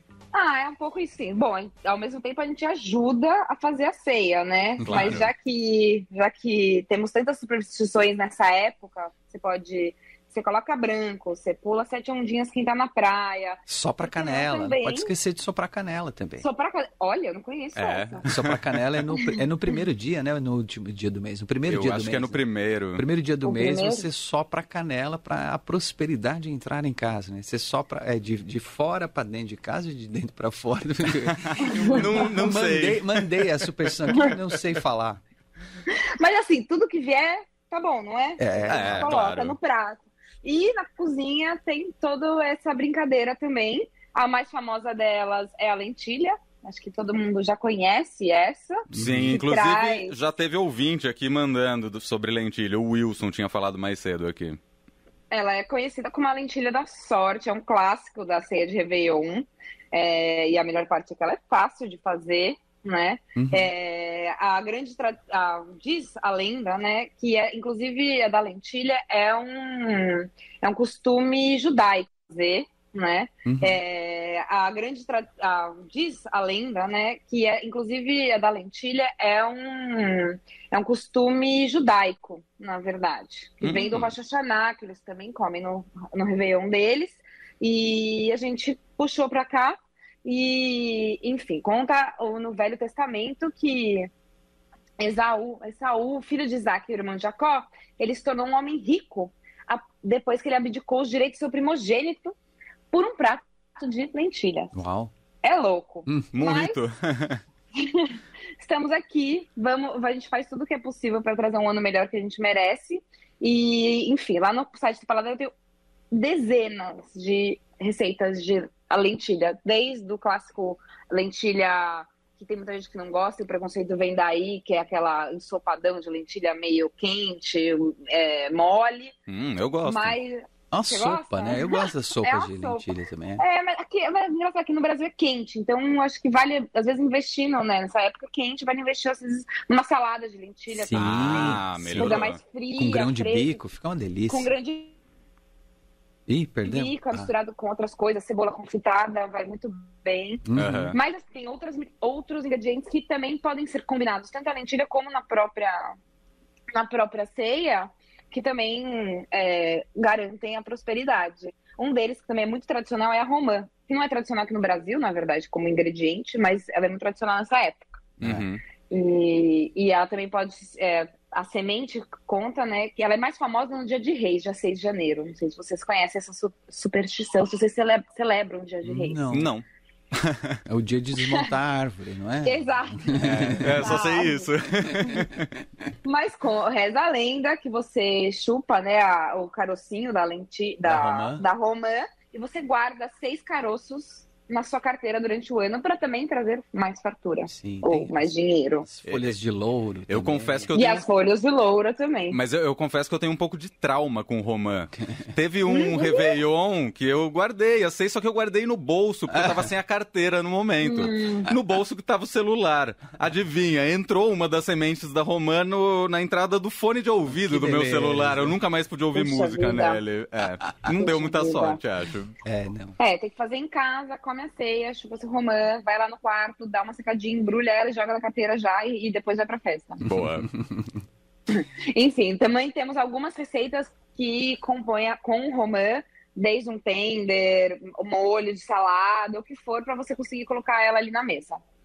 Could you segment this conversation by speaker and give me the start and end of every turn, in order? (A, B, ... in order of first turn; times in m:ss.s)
0:00.3-0:15.1 A
0:04.8-0:05.3 B
0:04.8-0:05.3 C
0:13.7-0:16.4 B
0:16.4-0:18.2 A
0:17.8-0:18.6 C
0:18.2-0:22.4 B
0:19.1-0:19.4 A
0:21.7-0:23.0 C
0:23.0-0:35.2 B
0:23.4-0:24.1 A
0:31.3-0:33.3 C
0:31.8-0:32.2 A
0:35.9-0:50.2 A
0:38.4-0:39.1 B
0:38.7-0:39.6 C
0:48.9-0:49.4 B
0:48.9-0:54.6 C
0:55.3-1:34.1 A
1:03.4-1:03.7 B
1:13.4-1:13.8 B
1:23.6-1:24.1 C
1:35.0-1:42.4 A
1:42.9-1:44.7 A
1:44.7-1:45.1 B
1:45.4-1:46.8 A
1:46.3-1:47.4 C
1:47.8-1:55.5 A
1:56.1-2:09.1 A
2:09.3-2:10.2 C
2:09.8-2:23.6 A
2:10.7-2:13.4 B
2:20.7-2:24.5 B
2:20.9-2:22.4 C
2:24.3-2:24.9 A
2:26.3-2:27.3 B
2:26.6-2:36.0 A
2:30.5-2:31.0 B
2:30.6-2:31.0 C
2:36.8-2:48.0 A
2:48.2-2:48.6 C
2:48.9-2:59.2 A
2:58.8-2:59.5 B
2:59.3-2:59.6 C
3:00.2-3:00.6 C
3:00.7-3:04.0 B
3:01.2-3:01.5 A
3:02.4-3:04.5 A
3:03.2-3:05.4 C
3:05.0-3:05.3 B
3:06.0-3:18.9 A
3:10.8-3:11.4 B
3:17.5-3:18.3 B
3:18.8-3:20.7 B
3:19.0-3:19.4 C
3:20.1-3:21.1 C
3:20.7-3:22.4 A
3:22.3-3:42.4 C
3:25.7-3:26.4 A
3:29.3-3:29.7 B
3:30.8-3:31.5 A
3:37.5-3:38.6 B
3:39.2-3:40.0 A
3:40.9-3:41.8 A
3:42.4-3:43.0 B
3:43.0-3:50.0 A
3:50.0-3:50.5 C
3:50.0-3:50.9 B
3:51.5-4:01.6 A